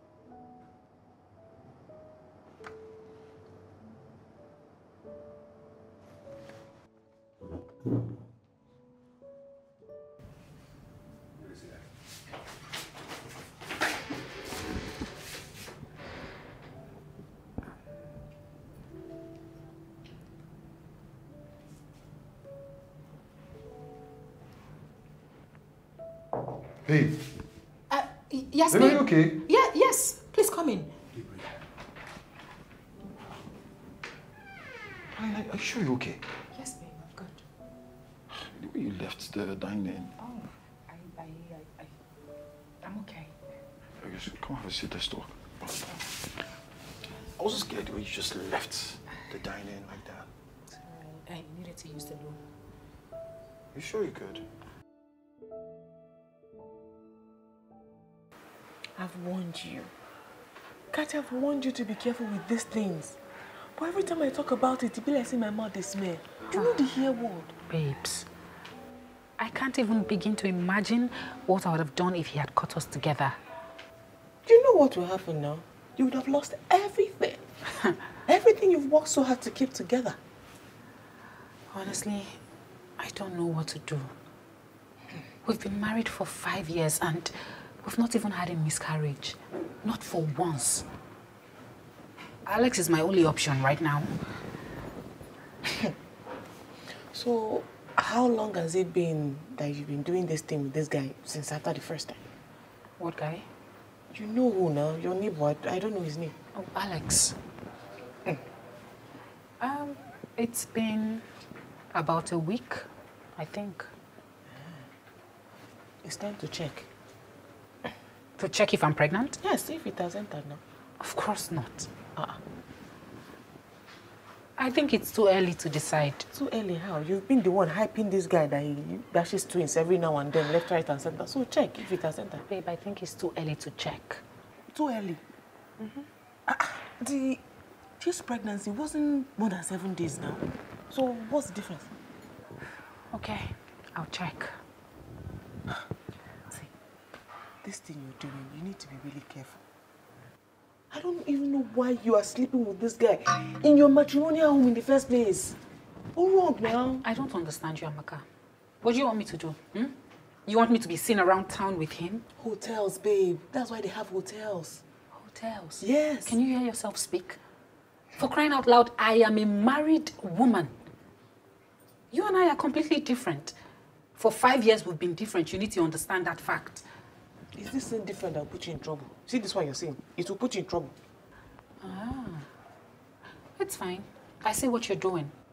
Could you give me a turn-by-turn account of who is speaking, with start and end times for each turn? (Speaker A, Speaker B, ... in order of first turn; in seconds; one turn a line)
Speaker A: 26.9-27.2
Speaker B: 27.9-30.9
Speaker A: 28.7-29.4
Speaker A: 35.1-36.2
Speaker B: 36.5-37.4
Speaker A: 38.3-40.1
Speaker B: 40.2-41.9
Speaker B: 42.8-43.4
Speaker A: 44.0-45.8
Speaker A: 47.4-50.3
Speaker B: 50.8-52.5
Speaker A: 53.7-54.5
Speaker C: 59.0-59.9
Speaker C: 60.9-63.2
Speaker C: 63.8-67.5
Speaker B: 66.5-67.0
Speaker B: 67.7-68.3
Speaker B: 69.4-73.4
Speaker C: 74.5-77.4
Speaker C: 78.3-80.2
Speaker B: 81.7-82.4
Speaker B: 83.0-84.1
Speaker B: 85.5-90.9
Speaker B: 92.5-94.1
Speaker C: 97.1-102.2
Speaker B: 103.0-103.5
Speaker C: 104.1-106.4
Speaker B: 106.5-107.4
Speaker B: 109.6-111.3
Speaker B: 111.9-113.9
Speaker C: 116.0-116.9
Speaker B: 118.4-119.4
Speaker C: 119.4-120.6
Speaker B: 121.0-121.9
Speaker B: 124.6-126.3
Speaker C: 126.3-132.4
Speaker B: 132.5-134.2
Speaker C: 134.7-135.2
Speaker C: 136.5-137.4
Speaker C: 138.0-141.9
Speaker B: 143.1-144.6
Speaker C: 147.6-149.6
Speaker C: 150.9-155.6
Speaker C: 156.2-157.0
Speaker B: 156.6-158.3
Speaker B: 158.8-162.2
Speaker C: 162.4-164.8
Speaker B: 165.1-167.4
Speaker C: 165.8-166.4
Speaker B: 168.2-170.7
Speaker B: 172.1-173.6
Speaker B: 174.2-176.9
Speaker C: 177.6-180.9
Speaker B: 181.8-182.5
Speaker B: 183.6-185.3